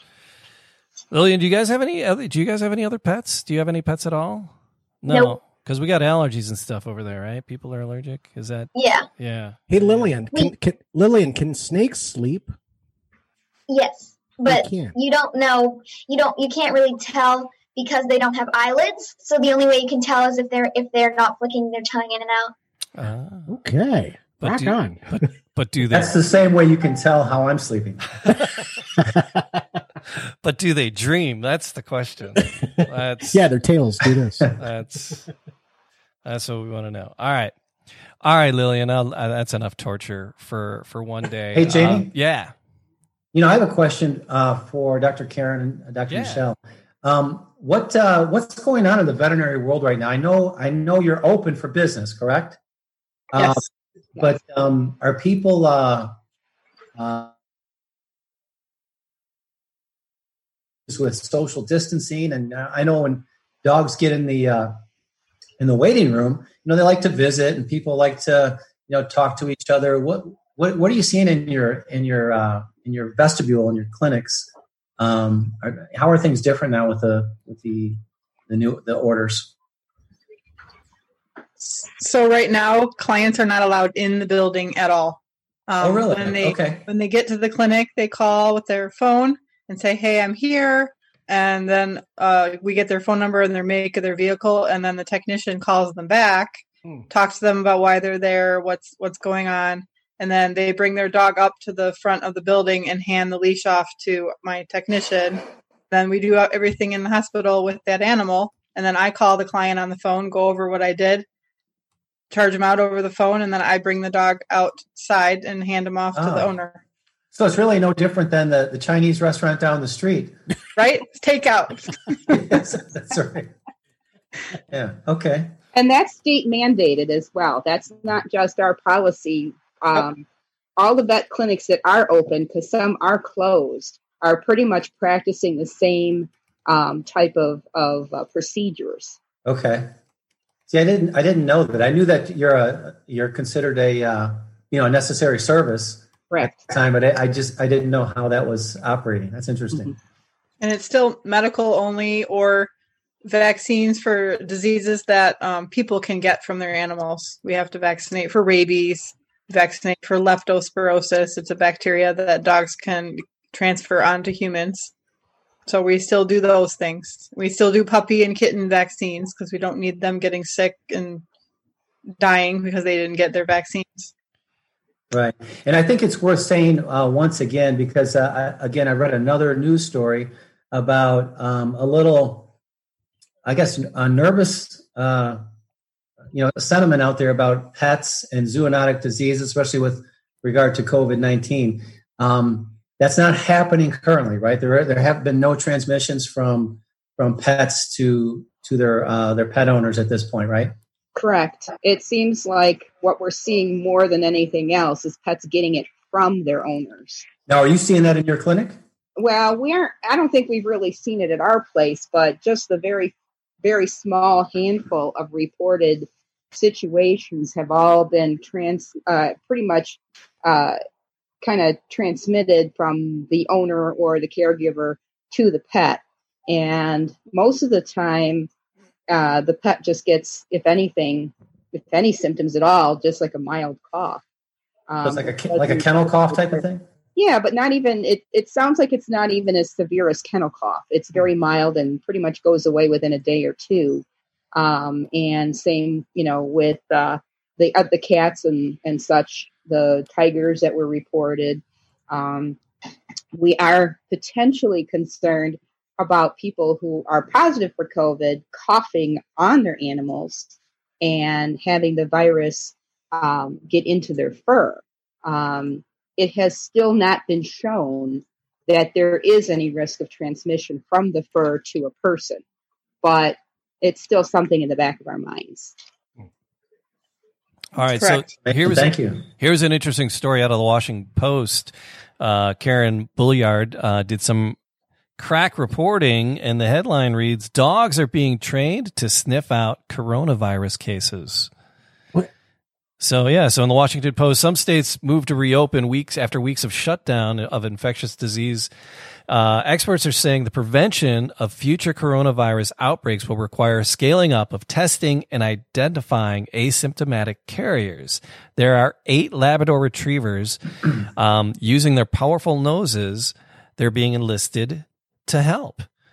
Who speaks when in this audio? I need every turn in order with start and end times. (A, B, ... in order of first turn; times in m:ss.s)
0:01.1-0:10.1 A
0:05.1-0:05.4 B
0:08.8-0:09.1 B
0:09.7-0:12.5 C
0:13.7-0:22.5 B
0:14.4-0:15.0 C
0:23.0-0:23.5 A
0:23.5-0:25.3 C
0:24.4-0:26.2 A
0:25.9-0:28.0 D
0:29.0-0:29.4 C
0:30.4-0:33.4 A
0:32.4-0:34.6 C
0:34.6-0:35.3 A
0:36.2-0:37.5 A
0:38.2-0:42.5 A
0:41.6-0:42.1 D
0:43.3-0:52.6 D
0:46.1-0:46.4 A
0:53.3-0:53.6 D
0:53.4-0:53.6 E
0:54.2-0:56.1 D
0:57.0-0:57.3 D
1:00.9-1:04.7 D
1:05.6-1:19.5 D
1:21.8-1:51.2 E
1:25.8-1:26.9 D
1:52.3-1:56.8 E
1:56.1-1:56.5 D
1:57.3-2:00.4 D
2:00.8-2:02.4 E
2:02.3-2:03.5 D
2:04.7-2:05.5 D
2:05.7-2:10.2 F
2:10.8-2:19.2 F
2:19.4-2:19.9 D
2:20.7-2:29.9 D
2:26.3-2:26.7 F
2:30.6-2:32.7 E
2:33.2-2:44.9 E
2:45.7-2:51.2 E
2:52.2-2:54.1 E
2:55.1-3:02.5 D
3:03.4-3:05.4 D
3:06.3-3:20.7 D
3:21.2-3:27.3 F
3:27.5-3:28.8 D
3:29.2-3:40.8 F
3:41.4-3:48.5 F
3:49.1-3:54.2 F
3:54.9-3:56.6 F
3:55.0-3:56.8 D
3:57.2-4:12.6 F
4:13.3-4:32.4 F
4:33.0-4:35.8 F
4:37.8-4:44.6 A
4:38.0-4:38.2 E
4:38.5-4:39.2 D
4:45.2-4:51.5 A
4:53.0-4:58.7 A
4:59.3-5:15.9 A